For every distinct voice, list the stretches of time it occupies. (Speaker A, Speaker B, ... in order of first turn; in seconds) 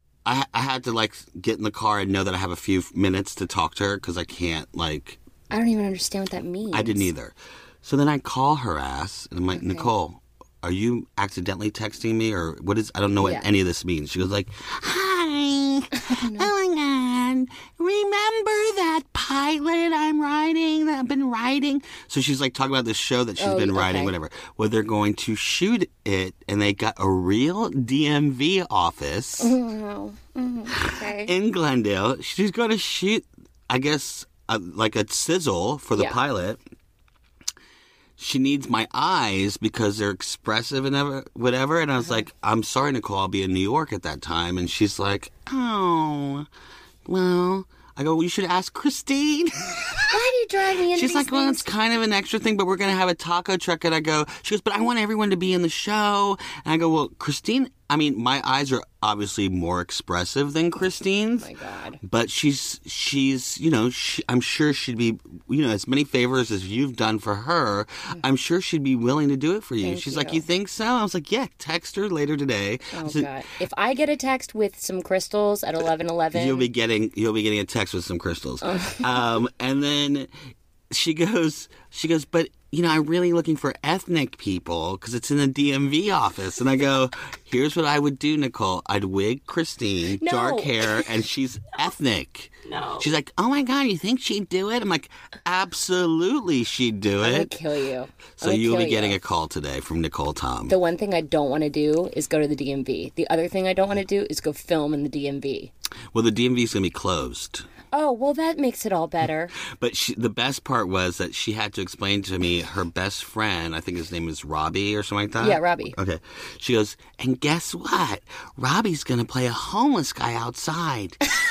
Speaker A: 0.2-5.2, 6.7-29.5, 30.7-36.6, 38.2-46.5, 47.0-50.1, 50.9-61.5, 62.0-73.3, 76.3-80.3, 80.9-97.5, 98.4-100.8, 106.1-107.7, 109.7-121.2
Speaker B: 5.5-7.1, 9.5-9.9, 13.2-13.5, 15.9-16.5, 23.4-24.1, 29.4-31.3, 35.9-36.2, 50.1-51.7, 61.4-62.0, 69.8-70.4, 72.9-76.7, 78.6-79.0, 90.1-91.1, 97.2-99.2, 100.7-105.7, 107.9-109.5, 115.4-116.0